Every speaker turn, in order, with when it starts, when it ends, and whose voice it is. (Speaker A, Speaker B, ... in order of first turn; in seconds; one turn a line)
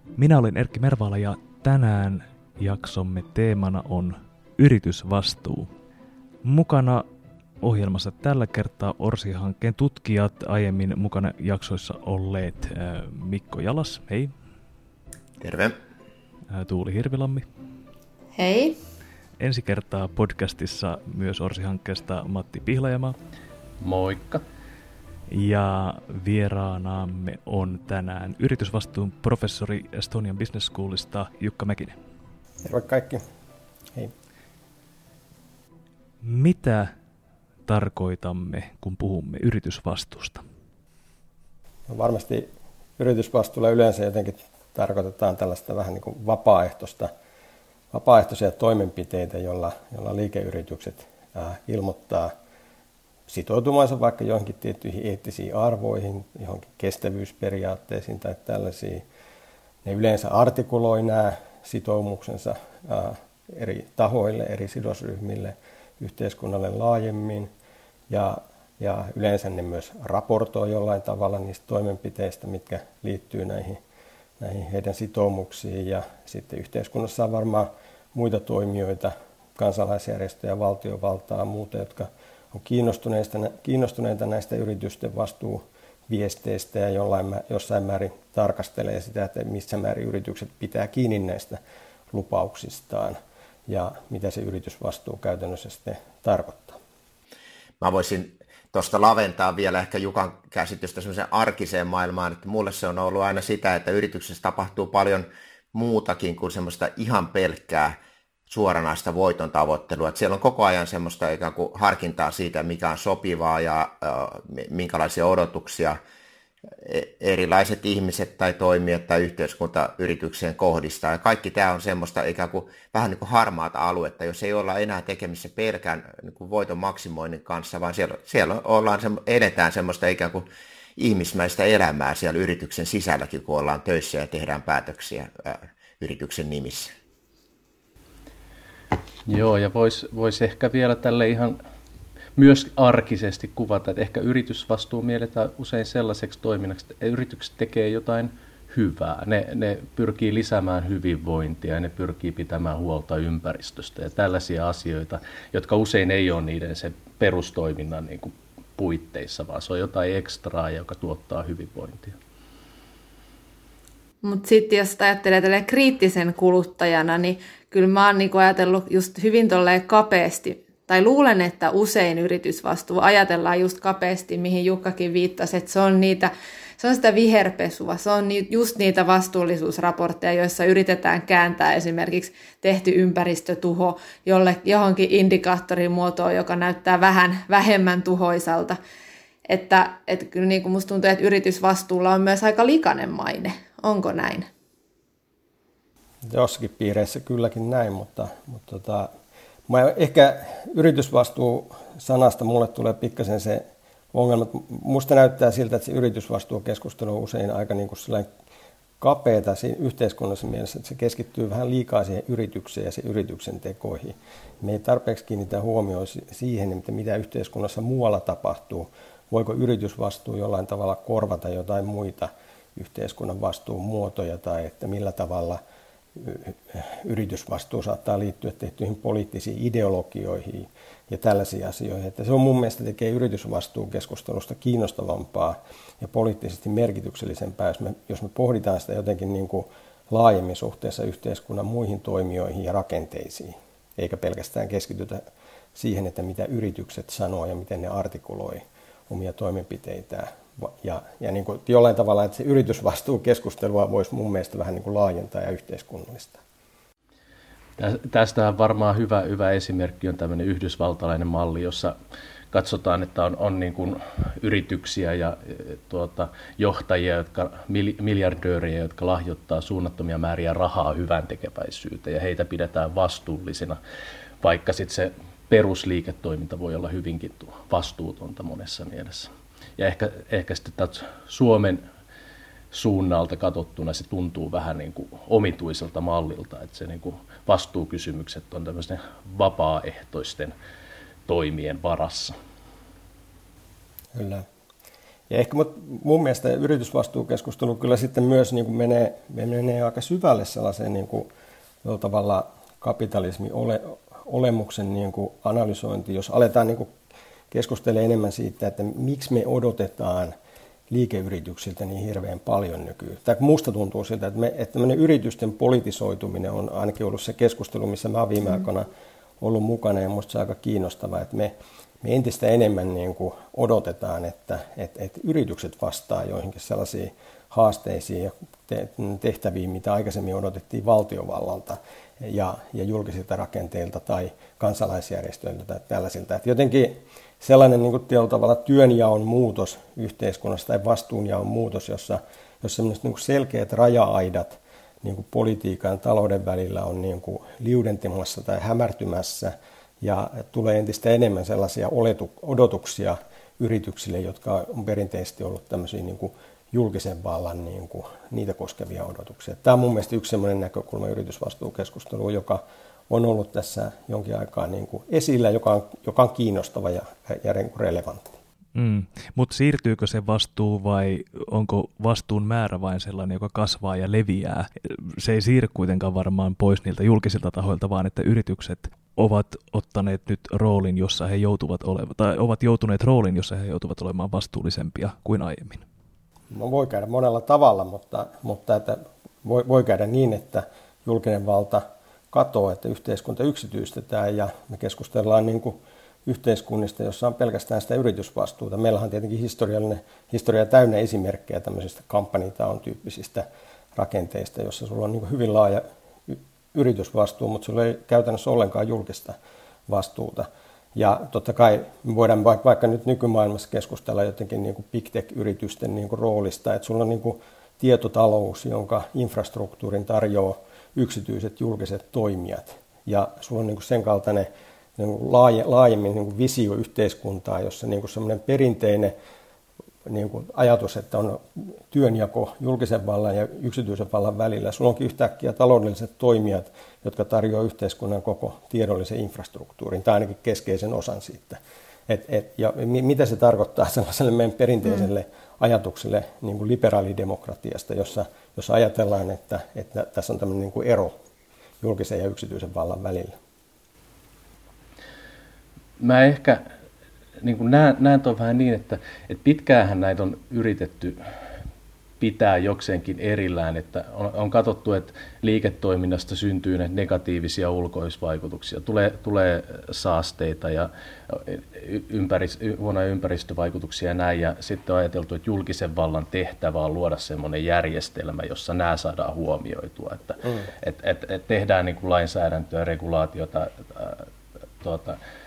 Speaker A: 0.1-5.7
Speaker A: 6.4-7.1
Speaker A: 7.6-14.3
Speaker B: 15.4-15.8
Speaker A: 16.5-17.5
Speaker C: 18.4-18.8
Speaker A: 19.4-23.2
Speaker D: 23.8-24.4
Speaker A: 25.3-32.0
Speaker E: 32.6-33.2
Speaker A: 36.2-36.9
Speaker A: 37.7-40.4
Speaker E: 41.9-42.5
Speaker E: 43.0-47.1
Speaker E: 47.9-52.3
Speaker E: 53.3-59.0
Speaker E: 59.8-67.5
Speaker E: 68.1-73.8
Speaker E: 74.4-91.6
Speaker E: 92.1-96.8
Speaker B: 97.8-108.0
Speaker B: 108.5-116.0
Speaker B: 116.8-130.4
Speaker B: 131.0-136.9
Speaker D: 139.3-141.6
Speaker D: 142.4-162.2
Speaker C: 164.2-188.8
Speaker C: 189.5-194.5
Speaker E: 196.2-199.1
Speaker E: 199.7-208.3
Speaker E: 209.0-225.6
Speaker E: 226.2-245.2
Speaker E: 245.8-256.4
Speaker D: 257.8-261.9
Speaker D: 262.5-273.8
Speaker D: 274.4-281.8
Speaker D: 282.7-290.5
Speaker D: 291.3-292.4
Speaker E: 294.1-294.4
Speaker E: 295.3-301.3
Speaker E: 301.8-306.9
Speaker E: 307.5-310.3
Speaker E: 310.9-318.9
Speaker E: 319.4-368.4
Speaker A: 368.8-385.9
Speaker E: 386.5-403.4
Speaker E: 404.0-409.4
Speaker E: 409.9-429.1
Speaker E: 430.1-451.1
Speaker E: 451.8-453.4
Speaker D: 456.0-456.6
Speaker D: 457.4-461.2
Speaker D: 462.2-484.3
Speaker D: 484.8-485.2